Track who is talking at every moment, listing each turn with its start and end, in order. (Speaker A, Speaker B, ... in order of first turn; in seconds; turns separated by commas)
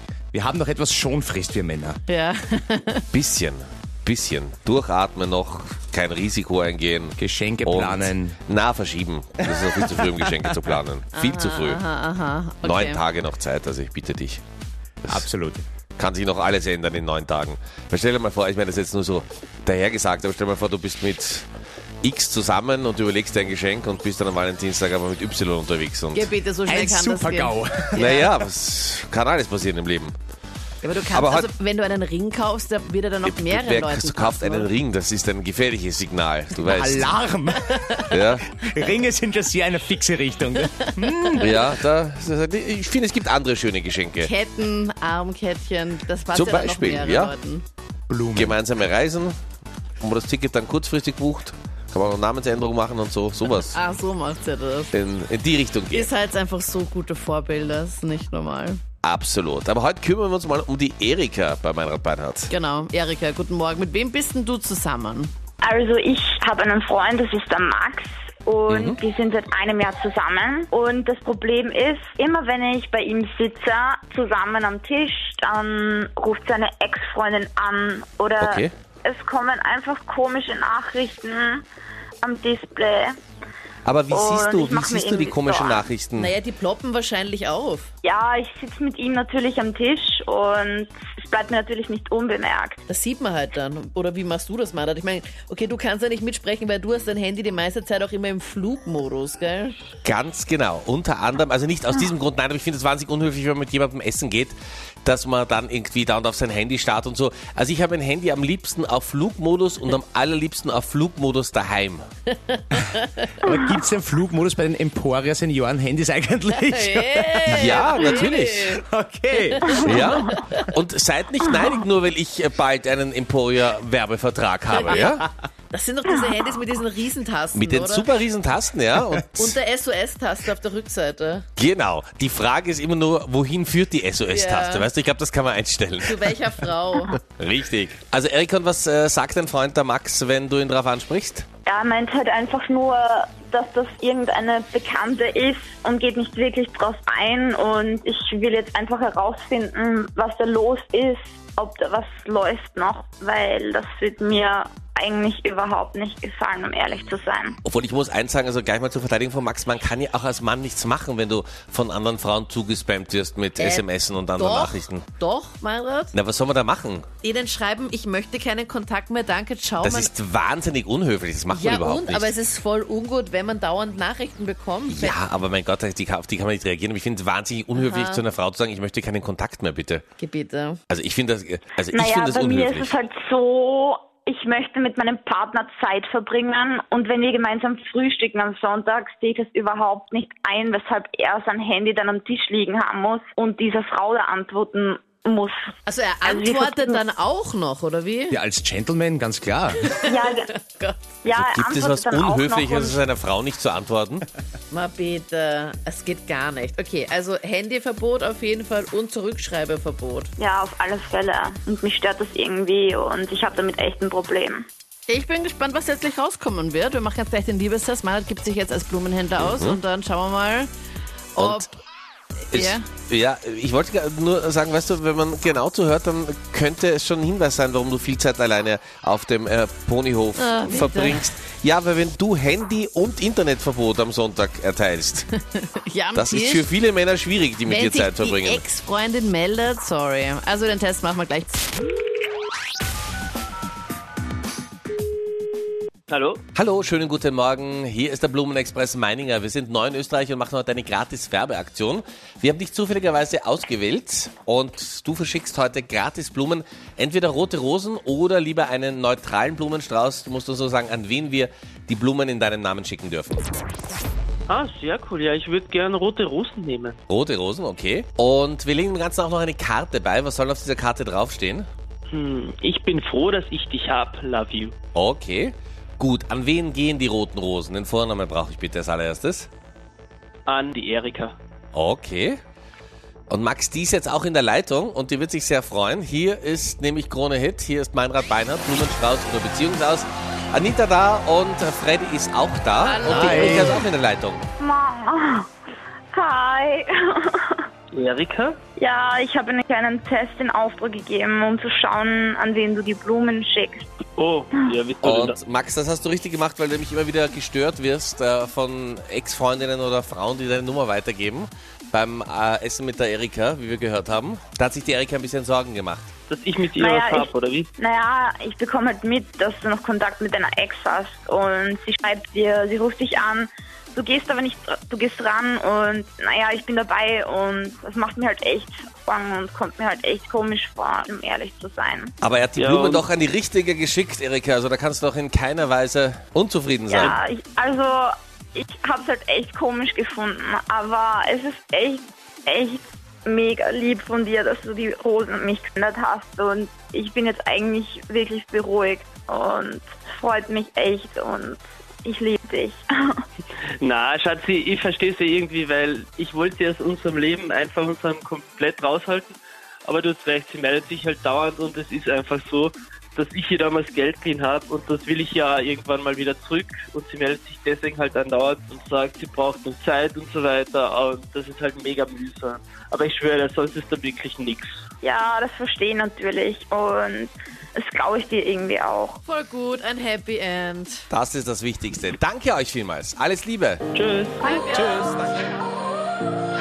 Speaker A: 0.3-2.0, Speaker B: 2.1-3.1, Speaker C: 3.1-11.8, Speaker A: 7.2-8.3, Speaker B: 11.1-13.0, Speaker C: 12.6-14.4, Speaker A: 15.1-15.6, Speaker C: 16.0-21.5, Speaker C: 22.0-26.3, Speaker B: 26.1-28.3, Speaker A: 26.6-28.0, Speaker C: 27.9-30.1, Speaker B: 30.8-34.7, Speaker C: 31.1-31.5, Speaker C: 33.2-37.1, Speaker A: 36.5-41.5, Speaker C: 38.1-38.5, Speaker C: 41.4-44.3, Speaker B: 44.2-47.6, Speaker C: 46.3-47.3, Speaker A: 48.1-48.5, Speaker C: 48.3-49.3, Speaker C: 50.0-53.8, Speaker B: 53.5-54.9, Speaker C: 54.9-56.1, Speaker B: 55.9-58.8, Speaker C: 59.0-62.5, Speaker B: 62.5-65.3, Speaker D: 65.6-81.6, Speaker C: 68.7-69.0, Speaker C: 78.4-78.7, Speaker D: 82.2-83.1, Speaker C: 83.8-86.3, Speaker D: 84.1-85.8, Speaker B: 86.2-87.9, Speaker D: 88.0-92.8, Speaker B: 92.9-99.8, Speaker C: 100.0-112.0, Speaker B: 112.5-113.5, Speaker A: 113.4-118.1, Speaker B: 116.7-118.8, Speaker C: 117.5-118.8, Speaker A: 118.7-120.0, Speaker B: 119.3-120.6, Speaker C: 119.8-125.2, Speaker B: 124.7-128.1, Speaker C: 127.5-129.6, Speaker B: 129.4-131.4, Speaker C: 131.6-136.3, Speaker B: 134.3-134.9, Speaker B: 136.0-137.2, Speaker C: 137.3-141.4, Speaker D: 141.7-157.6, Speaker C: 157.6-165.1, Speaker B: 163.6-166.1, Speaker C: 166.1-167.1, Speaker B: 167.2-170.1, Speaker C: 169.8-172.3, Speaker B: 171.5-175.2, Speaker C: 174.9-180.0, Speaker B: 177.7-178.2, Speaker B: 180.2-180.8, Speaker C: 180.9-182.9, Speaker D: 181.9-197.0, Speaker B: 195.8-198.4, Speaker A: 198.3-199.8, Speaker B: 199.9-201.0, Speaker D: 200.0-200.5, Speaker D: 201.2-203.0, Speaker C: 201.3-204.2, Speaker B: 204.7-210.3, Speaker D: 210.4-214.6, Speaker B: 215.1-220.7, Speaker C: 219.4-219.8, Speaker B: 221.3-221.7, Speaker C: 221.4-221.7, Speaker B: 222.5-222.8, Speaker C: 222.5-235.3, Speaker B: 230.4-231.2, Speaker B: 235.5-236.7, Speaker C: 236.1-238.6, Speaker B: 237.7-241.7, Speaker E: 246.1-246.4, Speaker C: 246.5-263.5, Speaker E: 264.5-267.0, Speaker C: 267.1-271.7, Speaker E: 272.1-274.7, Speaker C: 274.9-279.5, Speaker E: 280.5-281.4, Speaker C: 281.7-282.4, Speaker C: 283.3-294.4, Speaker B: 292.8-293.9, Speaker A: 293.2-293.5, Speaker D: 294.6-295.5, Speaker D: 296.1-297.6, Speaker E: 297.9-298.6, Speaker D: 298.8-303.9, Speaker E: 304.1-305.4, Speaker C: 305.0-316.1, Speaker E: 316.3-317.7, Speaker D: 316.8-332.1, Speaker C: 332.2-337.2, Speaker E: 332.6-333.0, Speaker D: 336.9-353.2, Speaker E: 353.8-374.8, Speaker D: 375.0-379.2, Speaker B: 379.2-381.1, Speaker C: 381.1-383.8, Speaker E: 383.9-384.4, Speaker D: 384.4-384.7, Speaker B: 384.4-385.2, Speaker C: 384.7-385.4